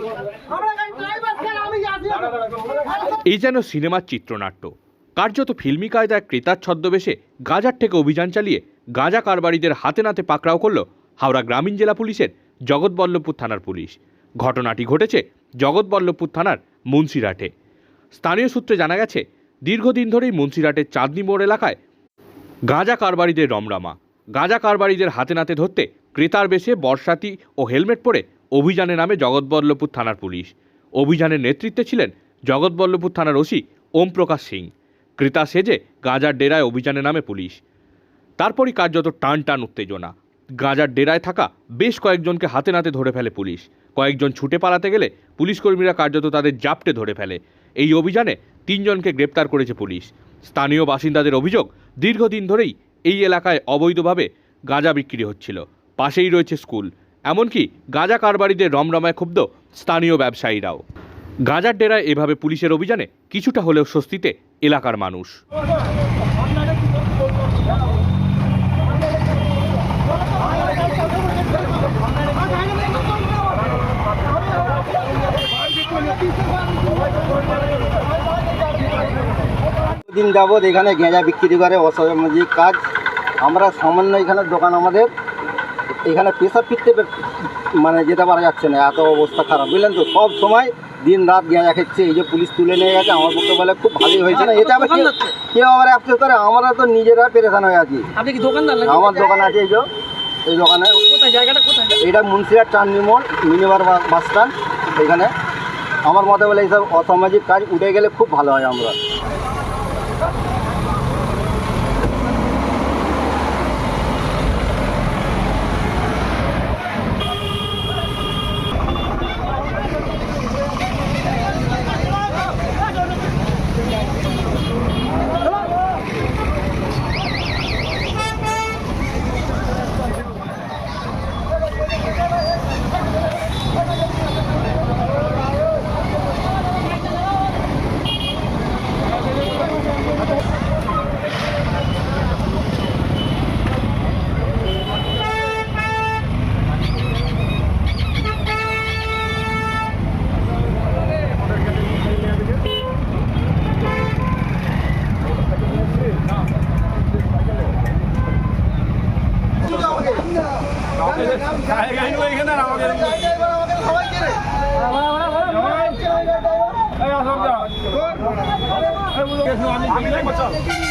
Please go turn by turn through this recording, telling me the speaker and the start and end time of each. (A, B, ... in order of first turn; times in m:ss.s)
0:00.6-0:02.2 A
0:03.1-0:17.5 B
0:18.1-0:21.8 B
0:22.7-0:37.6 B
0:38.4-1:00.8 B
1:01.5-1:05.4 B
1:20.1-1:22.8 C
1:23.4-1:25.1 C
1:26.0-1:27.2 C
1:27.8-1:38.1 C
1:38.2-1:38.9 A
1:38.8-1:39.9 C
1:40.5-1:41.2 C
1:41.3-1:42.0 A
1:42.0-1:45.3 C
1:46.0-1:49.0 C
2:42.1-2:42.4 A
2:49.9-2:50.4 A